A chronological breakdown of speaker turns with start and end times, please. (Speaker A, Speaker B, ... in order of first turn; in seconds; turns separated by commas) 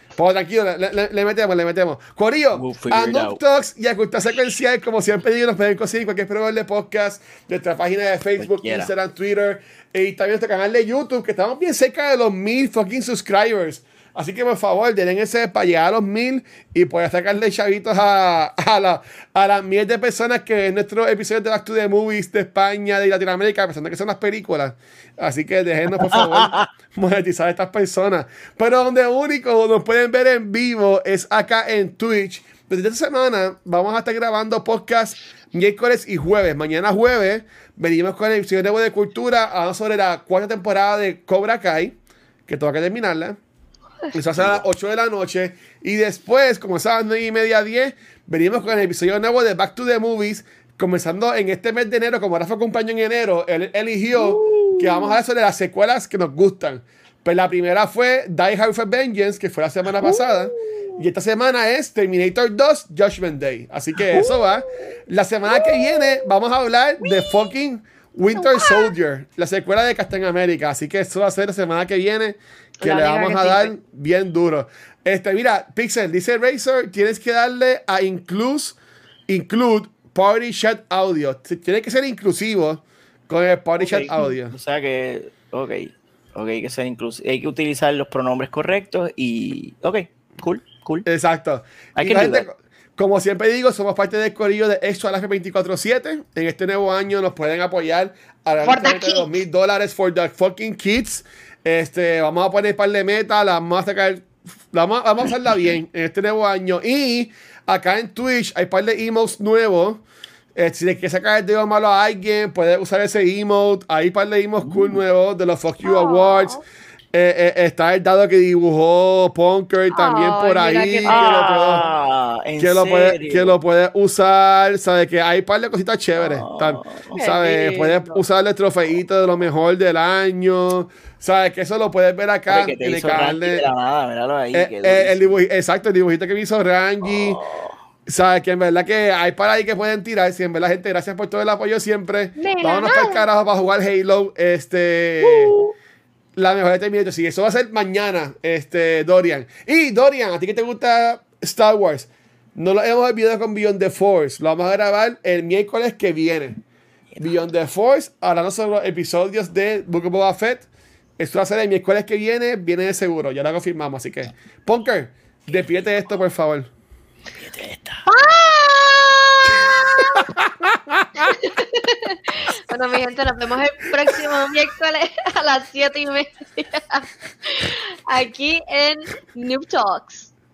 Speaker A: 0.1-42.0, Speaker B: 2.5-3.4, Speaker B: 8.4-8.9, Speaker B: 26.0-26.7, Speaker A: 42.5-43.4, Speaker A: 44.1-78.8, Speaker B: 44.4-44.6, Speaker B: 54.1-55.1, Speaker B: 60.0-61.0, Speaker B: 64.1-64.4, Speaker C: 72.8-73.7, Speaker A: 79.3-84.5, Speaker B: 83.8-91.1, Speaker A: 91.0-110.0, Speaker B: 92.0-92.5, Speaker C: 98.6-99.4, Speaker A: 110.6-116.6, Speaker B: 114.6-115.0, Speaker C: 115.8-116.6, Speaker A: 117.1-121.9, Speaker C: 119.9-121.9, Speaker B: 121.1-123.6, Speaker A: 122.6-133.7, Speaker B: 126.2-127.2, Speaker C: 127.1-128.2, Speaker B: 132.5-135.4, Speaker A: 134.5-137.4, Speaker B: 137.0-137.8, Speaker A: 138.1-145.6, Speaker C: 142.4-143.3, Speaker B: 145.2-145.7, Speaker A: 146.4-156.6, Speaker A: 157.2-160.7, Speaker A: 161.2-166.7, Speaker B: 167.3-168.1, Speaker C: 168.1-170.3, Speaker A: 170.4-171.3, Speaker C: 171.2-180.3